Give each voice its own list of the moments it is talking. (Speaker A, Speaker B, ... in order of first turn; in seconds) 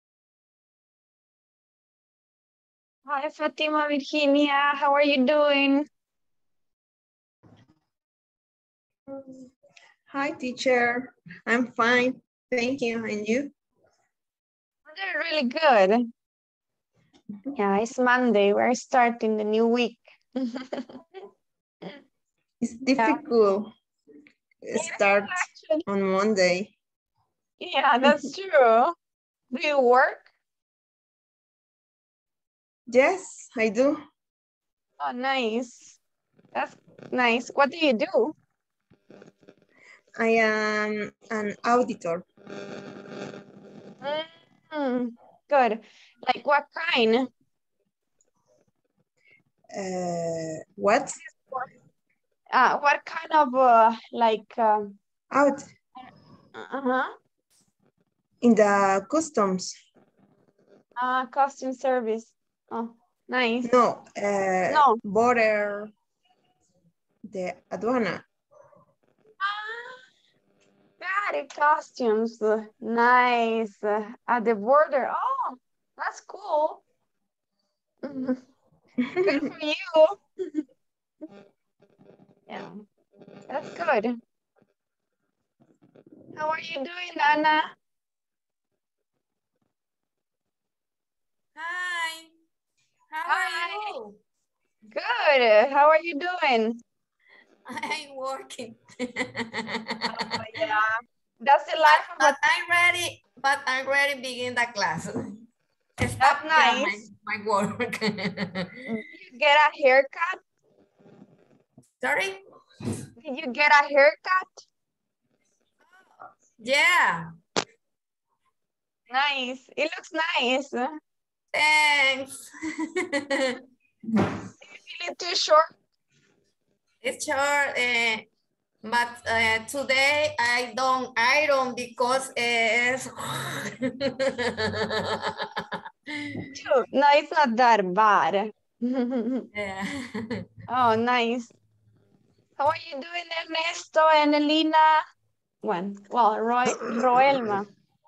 Speaker A: 3.1-5.9, 14.9-16.1, 17.6-21.0, 23.0-23.2, 24.7-25.9, 27.6-28.9, 29.5-30.3, 35.0-36.0, 36.5-38.4, 44.0-47.3, 51.3-51.6, 52.5-54.9, 56.5-57.1, 61.0-63.7, 64.7-65.0, 69.4-70.0, 71.0-76.8, 78.0-78.4, 79.2-80.2, 82.5-82.8, 83.5-84.2, 86.3-87.7, 93.3-94.0, 94.9-96.8, 100.2-100.8, 101.4-102.4, 106.2-107.0, 108.9-110.4, 113.2-114.7, 119.1-121.0, 124.6-125.7, 136.6-139.5, 140.7-141.5, 142.6-145.0, 145.6-147.7
Speaker B: 10.1-13.5, 22.6-23.7, 24.6-26.7, 32.9-34.0, 40.2-42.2, 49.7-51.2, 55.3-55.7, 58.4-59.7, 63.6-65.9, 67.3-68.2
Speaker C: 91.5-92.3, 93.1-94.2, 97.7-100.5, 101.9-105.2, 106.0-108.7, 112.0-112.4, 116.6-117.3, 121.5-122.5, 123.0-123.6, 127.0-128.2, 128.8-136.4, 139.5-140.5